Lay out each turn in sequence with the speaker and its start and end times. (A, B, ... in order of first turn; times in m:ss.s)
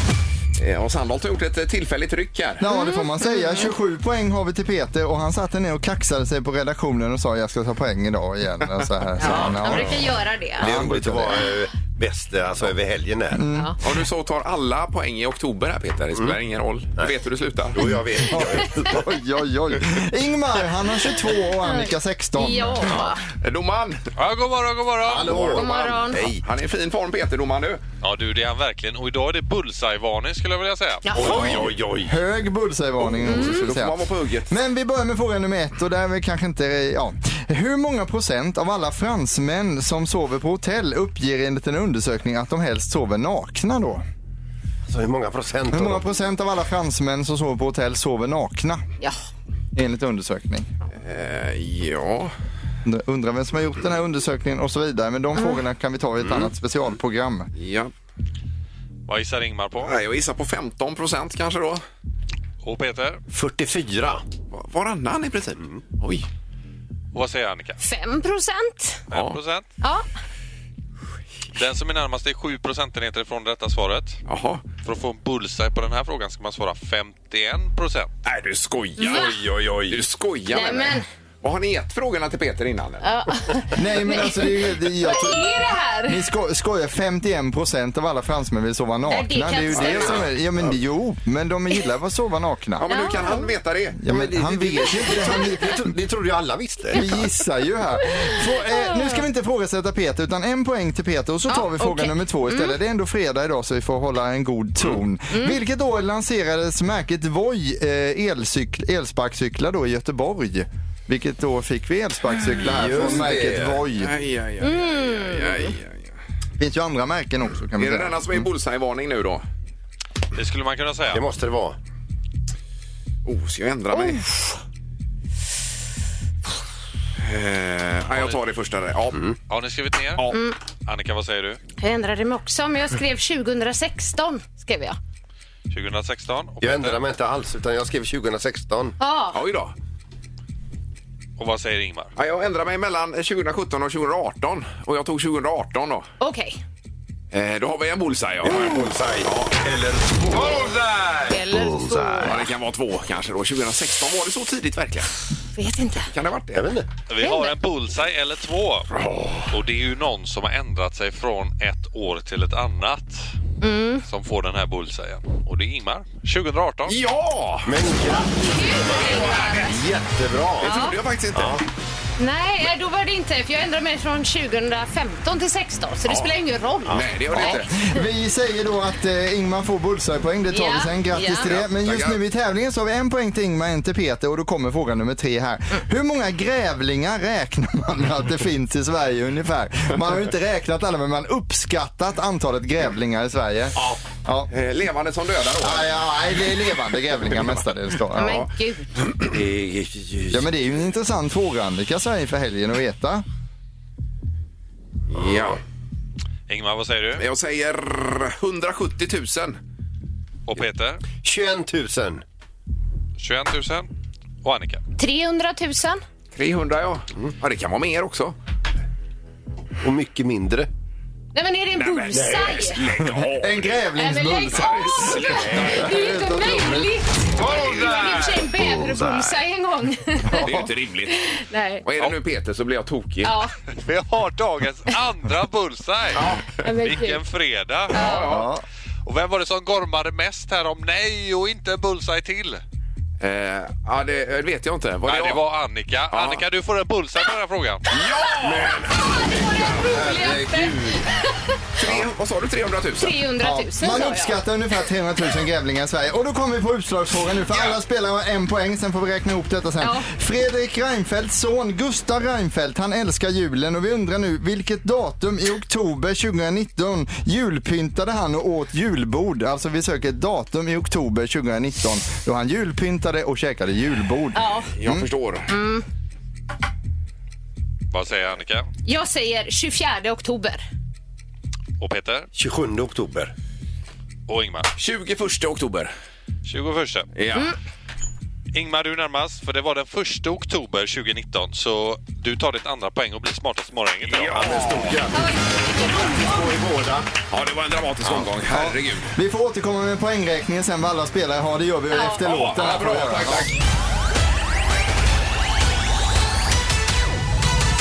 0:00.6-0:02.6 A
0:02.6-0:10.1 B
0:02.6-0:03.7 C
0:09.2-0:10.7 C
0:09.2-0:10.0 D
0:10.6-0:11.5 B
0:10.6-0:13.4 D
0:13.3-0:13.8 B
0:13.8-0:17.9 A
0:17.7-0:19.0 D
0:18.3-0:23.0 B
0:21.6-0:23.2 C
0:23.4-0:24.1 A
0:24.2-0:25.6 E
0:25.0-0:26.4 D
0:25.3-0:26.3 C
0:25.3-0:27.8 A
0:28.0-0:31.1 E
0:31.0-0:31.6 C
0:31.1-0:32.2 D
0:31.2-0:44.0 B
0:33.1-0:34.6 A
0:33.2-0:33.6 C
0:44.9-0:46.1 D
0:45.7-0:48.8 B
0:49.7-0:50.7 B
0:51.0-0:52.3 A
0:52.8-0:57.5 B
0:56.2-0:56.5 D
0:57.6-0:57.9 A
0:59.1-0:59.9 E
0:59.8-1:01.8 A
1:02.6-1:03.2 E
1:03.3-1:04.2 D
1:04.5-1:06.3 A
1:07.1-1:07.8 E
1:07.8-1:09.0 C
1:09.1-1:09.6 E
1:09.1-1:09.4 A
1:09.8-1:10.1 C
1:11.6-1:14.2 E
1:14.3-1:14.6 A
1:14.8-1:18.1 E
1:18.2-1:23.1 A
1:19.0-1:19.4 C
1:19.0-1:20.0 D
1:20.5-1:21.0 C
1:23.0-1:26.2 C
1:23.8-1:32.9 B
1:29.1-1:30.2 C
1:29.7-1:30.8 D
1:32.8-1:34.0 A
1:32.9-1:33.5 C
1:34.0-1:35.9 B
1:34.1-1:37.2 D
1:36.9-1:54.1 B
1:38.1-1:39.2 C
1:41.5-1:42.8 C
1:52.6-1:53.8 D
1:54.0-1:56.1 A
1:54.6-1:55.8 C
1:56.6-1:58.5 B
1:57.8-1:59.4 A
2:00.4-2:01.2 E
2:01.1-2:01.8 D
2:03.2-2:04.6 A
2:07.2-2:09.2 A
2:09.5-2:10.2 E
2:10.8-2:11.6 E
2:11.8-2:15.0 C
2:15.7-2:17.0 E
2:16.6-2:19.0 D
2:19.0-2:19.4 C
2:19.3-2:19.7 A
2:21.4-2:22.1 E
2:22.2-2:26.1 A
2:26.2-2:26.6 C
2:27.3-2:29.6 A
2:28.4-2:30.6 D
2:31.3-2:32.4 C
2:31.7-2:32.2 D
2:32.2-2:35.1 A
2:35.6-2:36.1 C
2:36.1-2:36.7 A
2:36.5-2:36.9 D
2:37.1-2:38.9 E
2:37.2-2:37.5 C
2:39.5-2:43.3 E
2:43.6-2:44.0 C
2:44.1-2:47.0 E
2:46.9-2:47.7 A
2:47.7-2:51.6 D
2:48.5-2:49.8 C
2:49.0-2:49.6 A
2:50.6-2:51.6 A
2:50.6-2:51.0 C
2:52.2-2:57.6 C
2:56.9-2:57.7 A
2:57.3-3:14.5 B
3:00.5-3:01.5 C
3:01.4-3:02.2 A
3:14.5-3:16.4 A
3:15.6-3:18.4 B
3:18.2-3:18.9 C
3:19.3-3:20.5 D
3:20.3-3:23.2 B
3:25.1-3:25.6 A
3:26.5-3:27.3 E
3:27.2-3:29.6 A
3:30.5-3:31.0 E
3:31.1-3:32.2 D
3:33.2-3:33.9 E
3:34.4-3:34.8 E
3:35.0-3:36.0 C
3:36.3-3:38.4 A
3:39.8-3:40.7 D
3:41.3-3:42.8 C
3:41.8-3:43.7 A
3:43.2-3:46.9 B
3:44.0-3:50.5 C
3:44.9-3:45.6 A
3:47.4-3:48.2 A
3:50.3-3:50.7 B
3:50.4-3:51.2 A
3:51.1-3:51.8 C
3:51.8-3:53.3 A
3:53.2-3:53.5 C
3:53.8-3:58.3 E
3:56.2-3:56.6 A
3:56.6-3:57.2 C
3:57.9-3:58.3 C
3:58.0-3:58.5 A
3:58.2-3:58.6 B
3:59.0-4:02.6 E
4:03.2-4:05.4 A
4:05.1-4:07.8 E
4:06.1-4:06.4 A
4:07.9-4:08.8 A
4:08.4-4:11.0 D
4:09.0-4:11.5 C
4:11.8-4:13.2 A
4:13.0-4:14.4 C
4:13.4-4:35.1 B
4:19.8-4:20.1 C
4:34.4-4:34.7 C
4:34.8-4:35.5 A
4:35.5-4:35.8 C
4:37.9-4:38.7 E
4:38.8-4:40.6 C
4:41.8-4:42.3 E
4:42.3-4:43.3 D
4:44.3-4:44.7 E
4:44.8-4:45.9 A
4:46.4-4:47.1 E
4:47.2-4:47.5 A
4:48.5-4:54.6 E
4:54.1-4:55.0 A
4:54.3-4:57.1 D
4:55.1-4:56.6 C
4:57.3-4:59.1 A
4:58.5-5:03.5 B
5:01.9-5:02.2 C
5:02.2-5:03.6 A